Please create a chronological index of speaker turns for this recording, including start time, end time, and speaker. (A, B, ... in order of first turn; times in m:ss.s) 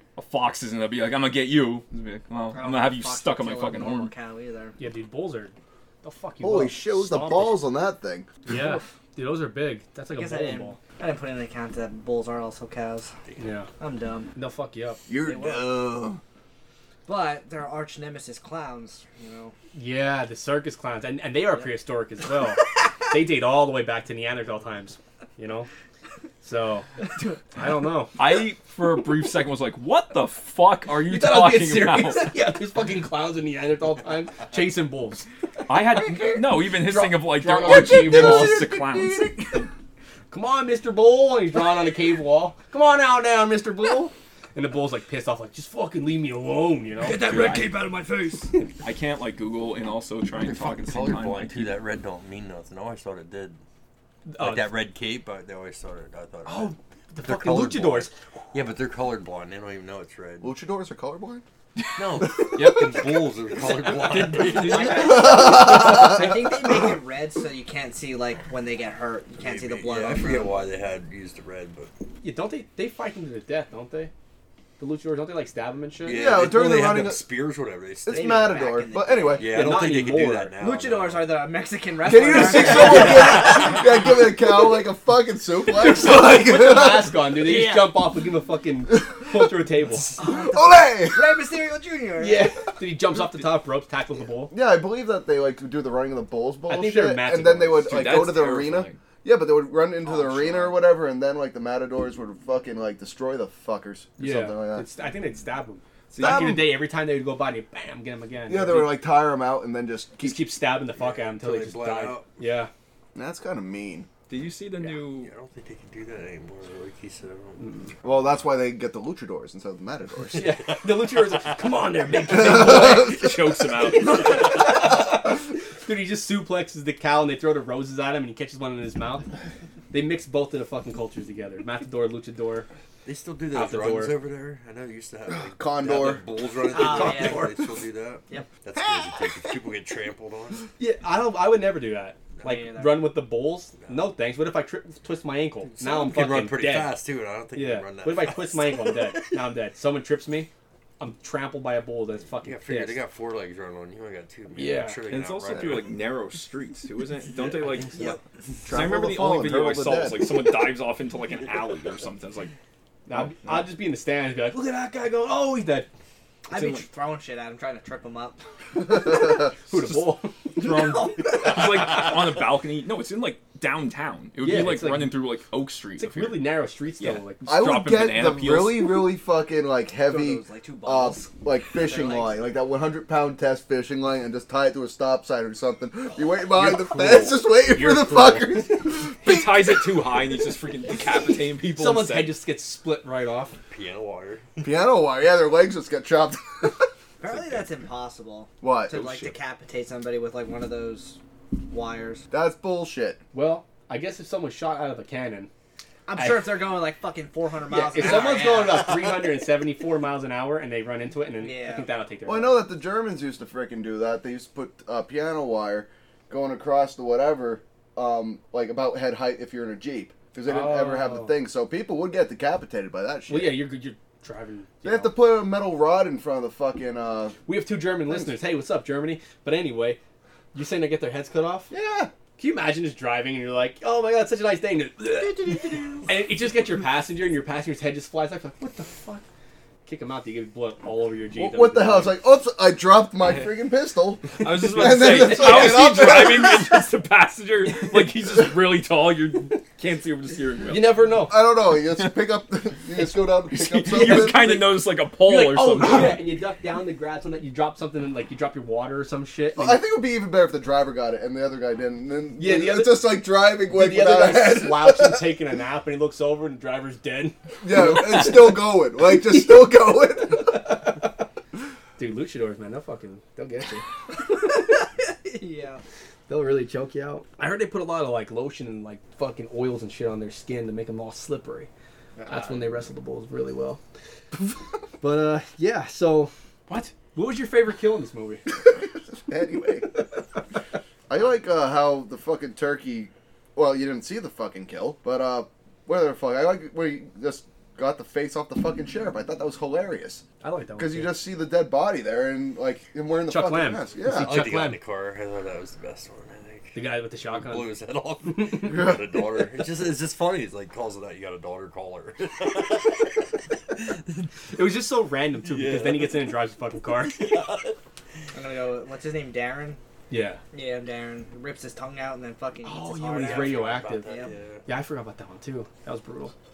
0:00.2-0:04.1 A
0:02.5-0:04.8 B
0:04.8-0:07.7 C
0:06.4-0:08.3 D
0:08.5-0:10.8 C
0:10.1-0:13.1 B
0:13.4-0:13.7 C
0:13.8-0:14.3 B
0:14.4-0:15.0 C
0:15.1-0:16.2 D
0:15.2-0:15.7 B
0:17.1-0:19.6 B
0:19.7-0:25.7 C
0:26.4-0:26.9 C
0:27.5-0:28.2 C
0:28.2-0:32.4 A
0:31.0-0:35.3 C
0:35.7-0:39.7 A
0:36.9-0:38.6 C
0:37.6-0:39.7 D
0:40.3-0:47.6 C
0:47.0-0:48.5 B
0:47.2-0:47.9 A
0:48.8-0:51.9 A
0:50.3-0:53.6 E
0:54.3-0:54.7 C
0:54.4-1:00.5 E
0:56.4-0:58.1 C
1:00.4-1:01.4 D
1:02.0-1:05.2 E
1:02.1-1:03.1 A
1:03.9-1:05.4 A
1:04.4-1:05.8 C
1:04.5-1:10.5 B
1:05.0-1:06.6 D
1:09.4-1:11.9 E
1:12.2-1:14.1 C
1:14.8-1:16.5 C
1:16.0-1:18.6 E
1:16.1-1:17.3 D
1:18.1-1:19.6 D
1:18.1-1:19.6 B
1:19.3-1:21.3 E
1:19.4-1:20.6 C
1:20.6-1:23.8 B
1:22.0-1:27.4 D
1:23.2-1:23.7 E
1:26.0-1:30.2 C
1:27.4-1:28.0 B
1:28.9-1:29.5 D
1:30.2-1:32.5 B
1:30.2-1:31.4 D
1:32.2-1:34.5 C
1:34.5-1:44.9 D
1:36.7-1:37.9 C
1:37.8-1:39.0 A
1:40.2-1:40.7 B
1:44.2-1:49.0 C
1:46.1-1:46.6 A
1:46.1-1:46.7 D
1:48.5-1:50.5 D
1:50.2-1:52.7 C
1:51.0-1:52.4 E
1:53.2-1:54.1 D
1:54.3-1:55.3 A
1:54.8-1:58.0 E
1:57.6-1:57.9 C
1:58.0-2:00.5 D
2:00.4-2:03.2 C
2:00.4-2:01.6 E
2:02.3-2:03.3 D
2:02.3-2:04.6 A
2:03.9-2:09.3 C
2:09.9-2:12.7 C
2:13.0-2:20.7 E
2:13.5-2:14.2 C
2:15.5-2:16.2 D
2:16.7-2:17.5 B
2:16.7-2:17.6 C
2:20.8-2:33.0 C
2:22.4-2:23.1 B
2:25.7-2:29.3 E
2:32.4-2:35.9 E
2:34.5-2:35.0 C
2:35.1-2:38.2 A
2:38.6-2:40.4 D
2:38.7-2:42.5 A
2:43.1-2:45.9 C
2:43.2-2:43.6 A
2:46.5-2:48.4 B
2:46.5-2:46.9 C
2:48.9-2:49.5 D
2:49.3-2:51.0 C
2:49.7-2:59.1 A
2:50.8-2:51.2 B
2:54.4-2:55.3 C
2:56.0-2:57.5 C
2:57.5-3:09.9 D
3:00.1-3:02.5 B
3:06.4-3:08.8 C
3:09.2-3:12.4 A
3:11.8-3:13.6 C
3:13.7-3:14.7 E
3:14.6-3:16.8 D
3:17.2-3:22.2 B
3:18.6-3:19.3 D
3:22.3-3:23.2 D
3:23.3-3:25.5 C
3:26.1-3:28.9 B
3:26.2-3:26.6 C
3:27.7-3:32.6 C
3:31.4-3:31.9 B
3:32.3-3:43.7 D
3:40.4-3:41.4 C
3:43.3-3:45.1 C
3:44.8-3:47.4 D
3:47.5-3:50.0 C
3:48.1-3:48.3 D
3:50.5-3:51.7 C
3:51.7-3:52.1 D
3:52.4-3:59.3 C
3:55.3-3:56.0 B
3:59.8-4:02.2 C
4:01.4-4:06.9 D
4:04.4-4:11.2 A
4:05.3-4:05.6 C
4:10.7-4:11.4 C
4:11.2-4:14.6 D
4:11.8-4:12.1 A
4:13.5-4:16.2 A
4:13.9-4:14.7 C
4:15.2-4:19.8 C
4:15.8-4:16.2 D
4:19.6-4:25.4 D
4:22.4-4:28.6 C
4:27.6-4:30.6 D
4:30.3-4:31.1 C
4:32.0-4:33.8 C
4:35.2-4:35.8 B
4:36.3-4:41.7 C
4:42.2-4:42.5 D
4:42.3-4:43.8 C
4:45.0-4:46.3 C
4:46.7-4:46.9 A
4:47.1-4:48.5 C
4:49.3-4:50.0 D
4:51.1-5:00.2 D
5:00.4-5:01.2 C
5:00.8-5:04.5 D
5:03.3-5:04.8 C
5:04.0-5:13.3 E
5:06.8-5:08.9 C
5:08.7-5:09.0 D
5:14.5-5:17.3 C
5:15.4-5:16.4 E
5:16.9-5:17.8 E
5:18.3-5:19.8 B
5:20.1-5:20.4 C
5:20.5-5:24.3 B
5:22.6-5:24.1 C
5:23.1-5:24.7 E
5:24.7-5:26.3 C